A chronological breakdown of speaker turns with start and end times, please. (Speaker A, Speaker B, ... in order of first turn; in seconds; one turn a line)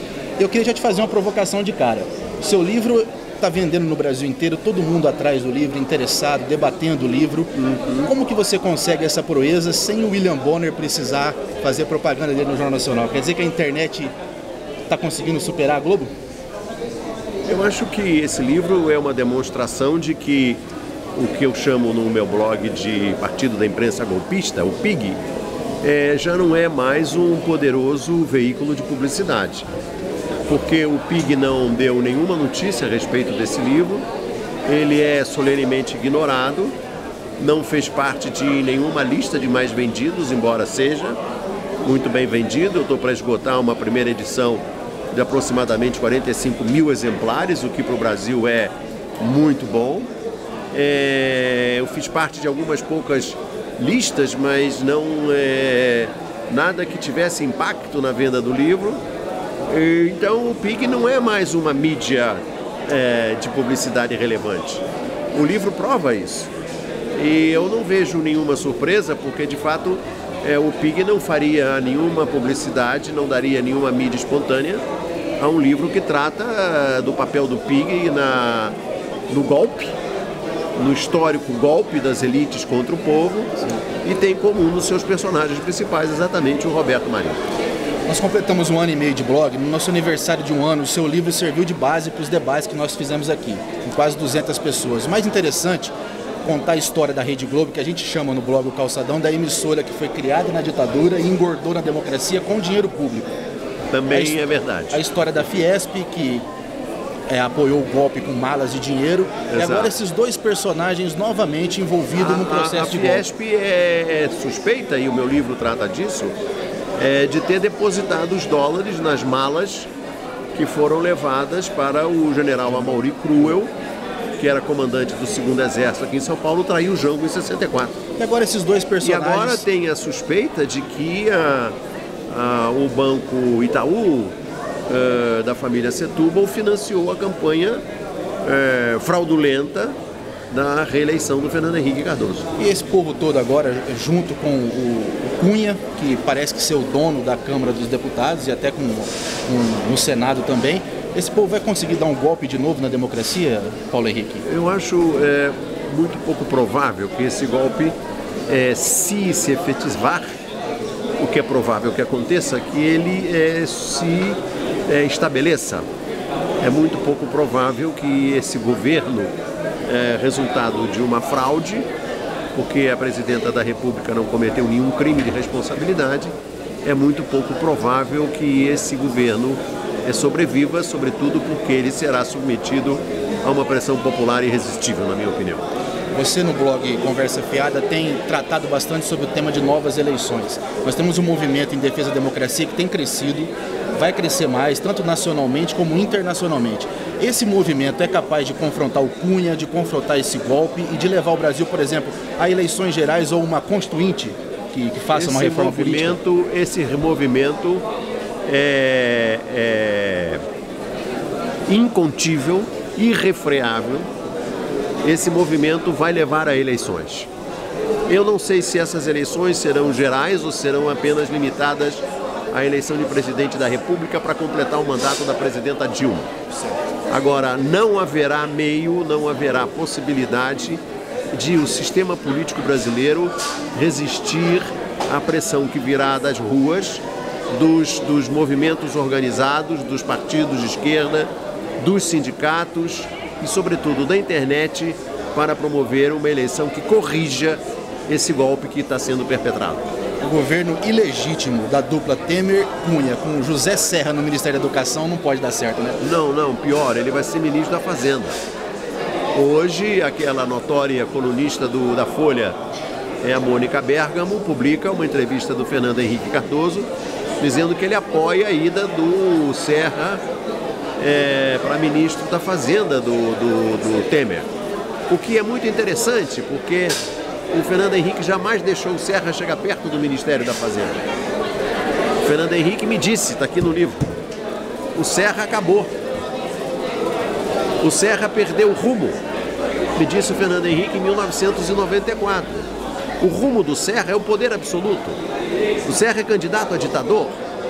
Speaker A: 0.4-14.1
Speaker B: 7.5-8.1
Speaker A: 14.9-16.1
Speaker B: 17.5-20.6
Speaker B: 21.1-25.2
Speaker B: 25.8-29.7
Speaker B: 30.5-34.0
Speaker B: 34.6-36.8
Speaker B: 37.4-41.2
Speaker B: 41.8-50.1
Speaker B: 50.7-59.0
Speaker B: 59.7-66.5
Speaker B: 67.1-74.8
Speaker B: 75.4-78.8
Speaker B: 79.3-80.0
Speaker B: 80.8-83.5
Speaker B: 84.0-87.4
Speaker A: 88.1-95.9
Speaker A: 96.4-103.3
Speaker B: 103.9-105.0
Speaker A: 104.1-106.5
Speaker A: 107.3-113.2
Speaker B: 109.5-109.9
Speaker B: 112.1-116.3
Speaker B: 117.0-119.9
Speaker B: 120.5-123.7
Speaker B: 124.4-128.0
Speaker A: 128.2-129.6
Speaker B: 129.0-131.7
Speaker B: 132.3-134.3
Speaker B: 134.9-137.8
Speaker B: 138.4-139.9
Speaker B: 140.5-142.5
Speaker A: 142.6-154.4
Speaker B: 154.4-157.9
Speaker B: 158.5-160.3
Speaker B: 161.2-165.8
Speaker B: 166.6-169.3
Speaker B: 169.9-171.9
Speaker B: 172.5-176.3
Speaker B: 176.8-185.7
Speaker A: 186.1-206.2
Speaker B: 205.1-207.8
Speaker B: 208.4-210.4
Speaker B: 211.7-214.1
Speaker B: 215.0-217.3
Speaker B: 218.1-226.3
Speaker B: 227.1-230.8
Speaker B: 231.3-249.9
Speaker A: 250.2-256.0
Speaker B: 256.0-258.4
Speaker B: 259.3-262.6
Speaker B: 263.2-266.9
Speaker B: 267.4-270.2
Speaker B: 271.0-274.5
Speaker B: 275.1-277.0
Speaker B: 277.5-281.0
Speaker B: 282.2-284.1
Speaker B: 284.9-285.9
Speaker B: 287.8-289.2
Speaker B: 289.9-292.7
Speaker B: 293.2-295.2
Speaker B: 295.8-297.4